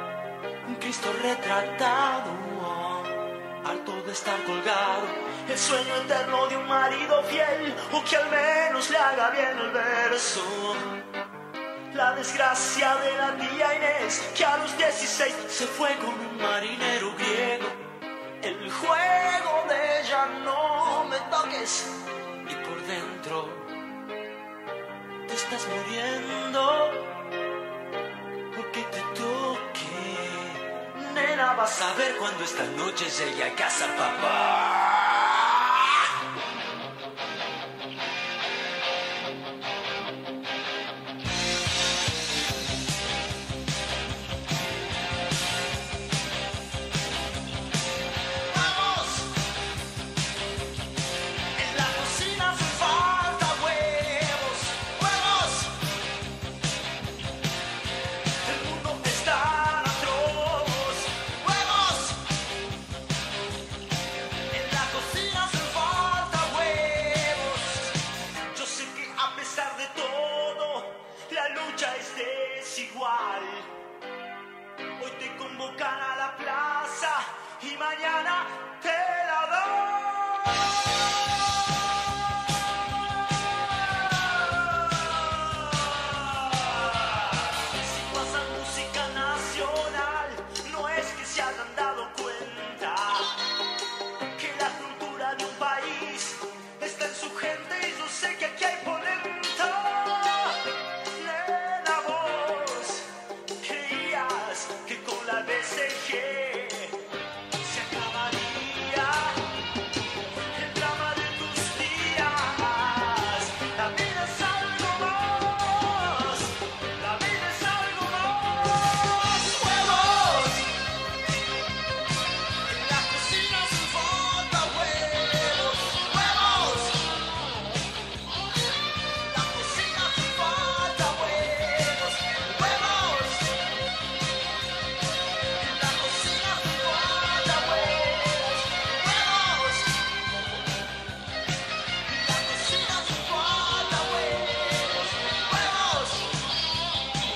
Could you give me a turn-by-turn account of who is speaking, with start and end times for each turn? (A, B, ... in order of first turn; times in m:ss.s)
0:00.6-0:10.9 A
0:11.9-0:17.8 A
0:18.4-0:23.7 A
0:25.3-0:27.1 A
0:28.5-0:35.7 A
0:48.5-0:49.3 A
0:51.6-0:55.7 A
0:58.4-1:02.2 A
1:04.5-1:07.9 A
1:08.5-1:13.7 A
1:15.0-1:20.4 A
1:24.1-1:33.4 A
1:34.3-1:40.6 A
1:41.2-1:43.1 A
1:43.6-1:46.9 A
1:47.6-1:49.4 A
1:50.5-2:00.7 A
2:02.6-2:07.1 A
2:09.2-2:13.6 A
2:15.6-2:20.0 A
2:22.1-2:26.3 A